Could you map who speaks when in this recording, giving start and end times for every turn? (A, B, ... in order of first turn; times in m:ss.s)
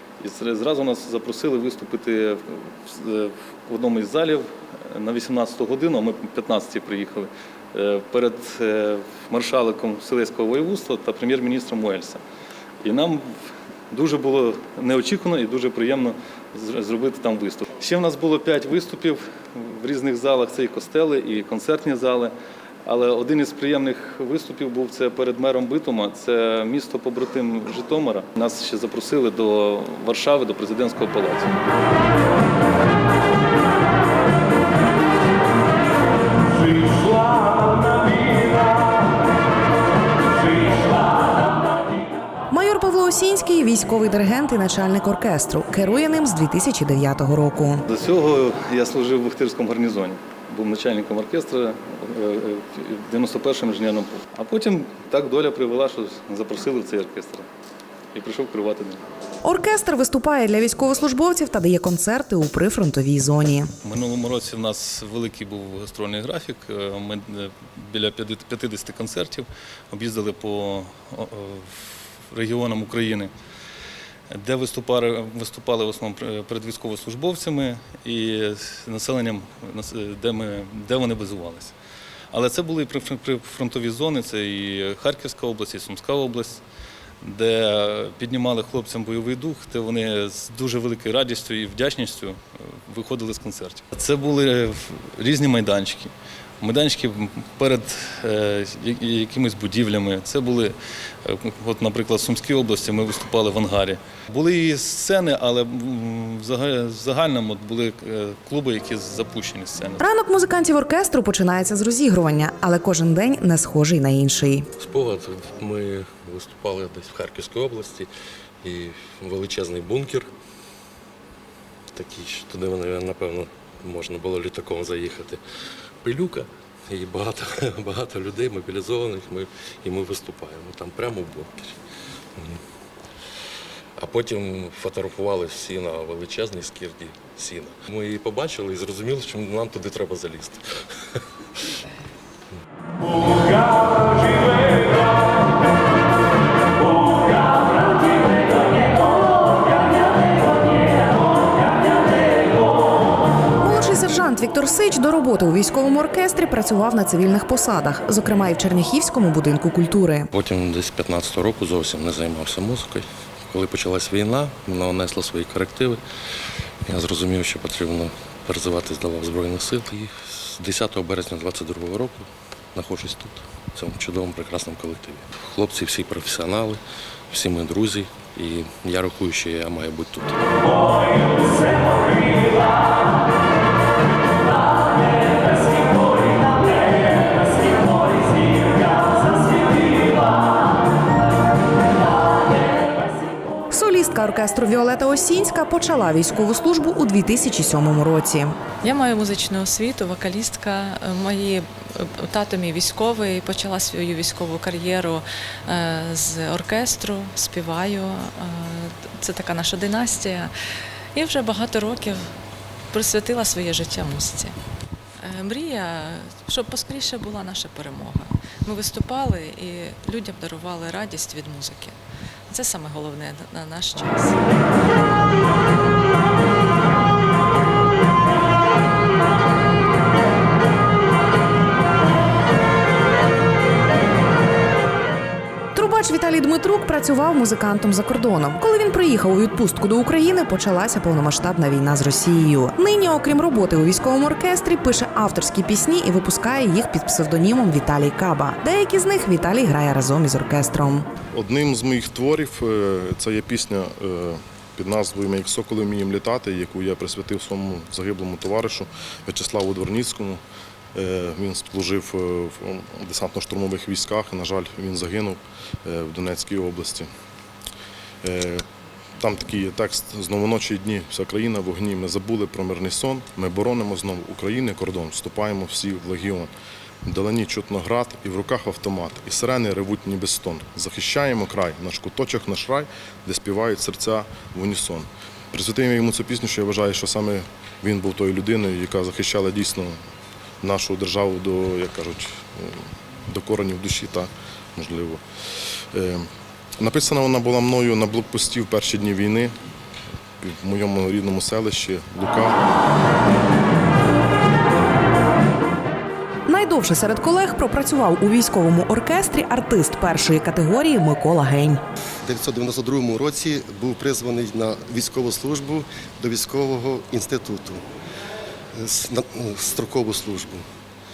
0:00.2-0:12.2 A
0:12.8-0:13.3 A
0:13.9-0:22.3 A
0:22.8-0:31.5 A
0:42.5-0:47.8 B
0:47.9-0:57.5 A
0:58.1-0:59.0 A
0:59.4-1:03.7 B
1:03.8-1:13.3 A
1:14.3-1:21.8 A
1:22.3-1:26.6 A
1:27.2-1:50.0 A
1:50.0-1:54.7 B
1:54.8-1:58.1 C
1:58.6-2:00.3 C
2:01.9-2:05.4 C
2:06.0-2:11.8 C
2:14.0-2:20.6 C
2:33.6-2:40.3 B
2:40.3-2:46.0 C
2:46.8-3:00.5 C
3:13.7-3:18.6 B
3:18.8-3:30.5 D
3:31.1-3:32.4 D
3:32.9-3:34.6 D
3:35.2-3:42.0 D
3:42.5-3:44.4 D
3:55.7-4:11.1 B
4:11.3-4:20.4 E
4:20.9-4:27.1 E
4:28.2-4:28.6 E
4:29.2-4:36.5 E
4:37.0-4:50.0 E
4:50.6-4:55.2 E
4:55.9-4:56.3 E
4:56.8-4:59.5 E
5:00.4-5:02.6 E
5:06.5-5:11.8 B
5:12.2-5:17.8 F
5:18.7-5:20.6 F